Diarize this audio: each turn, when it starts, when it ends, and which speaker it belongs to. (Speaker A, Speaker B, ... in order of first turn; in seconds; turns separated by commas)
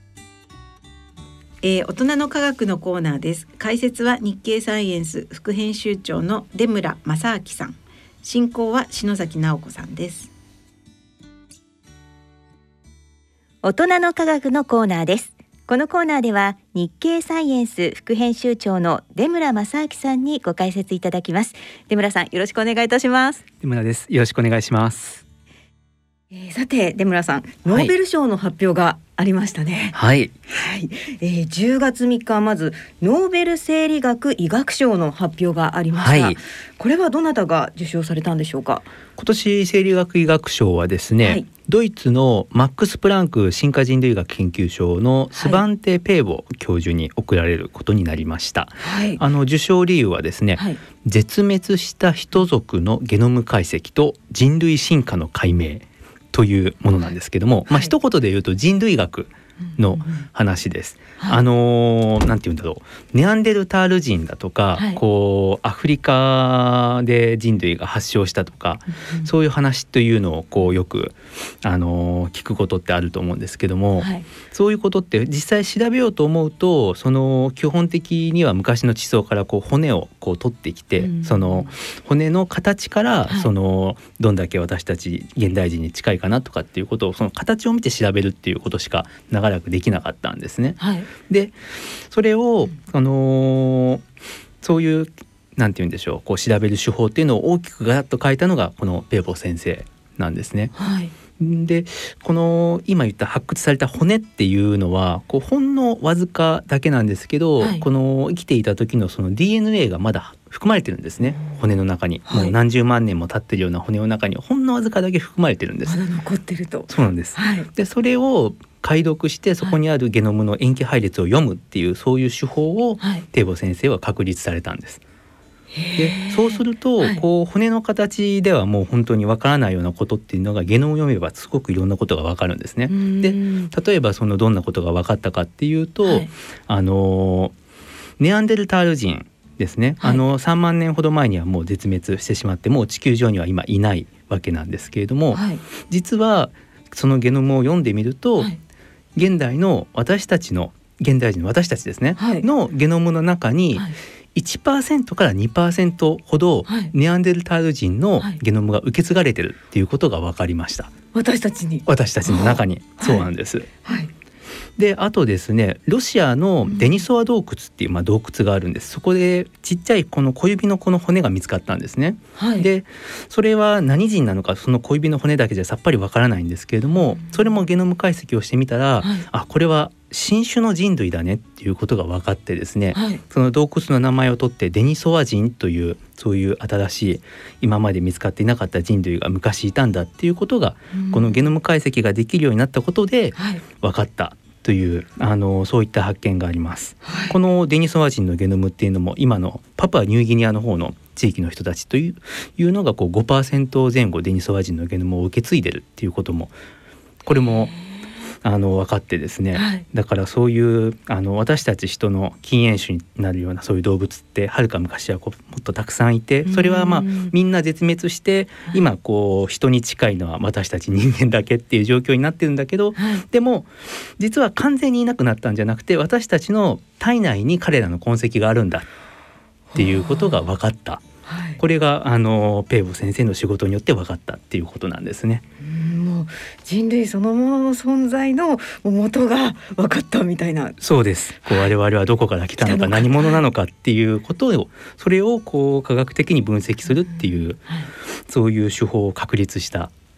Speaker A: 1.6-10.3, Speaker B: 13.6-23.4, Speaker C: 23.6-25.2, Speaker B: 26.3-38.9, Speaker C: 27.7-27.9, Speaker C: 29.9-30.3, Speaker C: 35.9-36.4, Speaker C: 39.2-94.0, Speaker B: 45.3-45.6, Speaker B: 48.8-49.2, Speaker B: 57.7-57.9, Speaker B: 59.9-60.3, Speaker B: 64.7-65.0, Speaker B: 69.0-69.3, Speaker B: 74.0-74.2, Speaker B: 81.0-81.7, Speaker B: 90.8-91.1, Speaker C: 94.6-100.7, Speaker B: 100.7-101.1, Speaker C: 101.4-116.0, Speaker B: 107.6-107.8, Speaker B: 112.2-112.5, Speaker B: 115.8-117.7, Speaker C: 116.9-125.0, Speaker B: 123.0-123.2, Speaker B: 125.7-127.2, Speaker C: 126.0-137.5, Speaker B: 132.9-133.7, Speaker B: 136.0-136.3, Speaker C: 138.2-148.5, Speaker B: 145.3-145.6, Speaker C: 149.2-160.9, Speaker B: 152.2-152.5, Speaker B: 156.7-156.9, Speaker B: 161.1-163.3, Speaker C: 161.8-163.7, Speaker B: 163.8-164.1, Speaker C: 164.8-206.5, Speaker B: 166.7-167.0, Speaker B: 172.3-172.7, Speaker B: 182.9-183.2, Speaker B: 190.9-191.5, Speaker B: 193.3-193.6, Speaker B: 197.0-197.4, Speaker C: 207.2-207.7, Speaker B: 207.3-208.0, Speaker C: 208.4-228.9, Speaker B: 209.5-209.8, Speaker B: 216.4-217.3, Speaker B: 222.9-223.2, Speaker B: 229.7-230.4, Speaker C: 229.7-231.0, Speaker B: 231.2-231.6, Speaker C: 231.6-235.4, Speaker B: 235.6-240.8, Speaker C: 240.8-249.9, Speaker B: 242.6-243.4, Speaker B: 247.2-247.9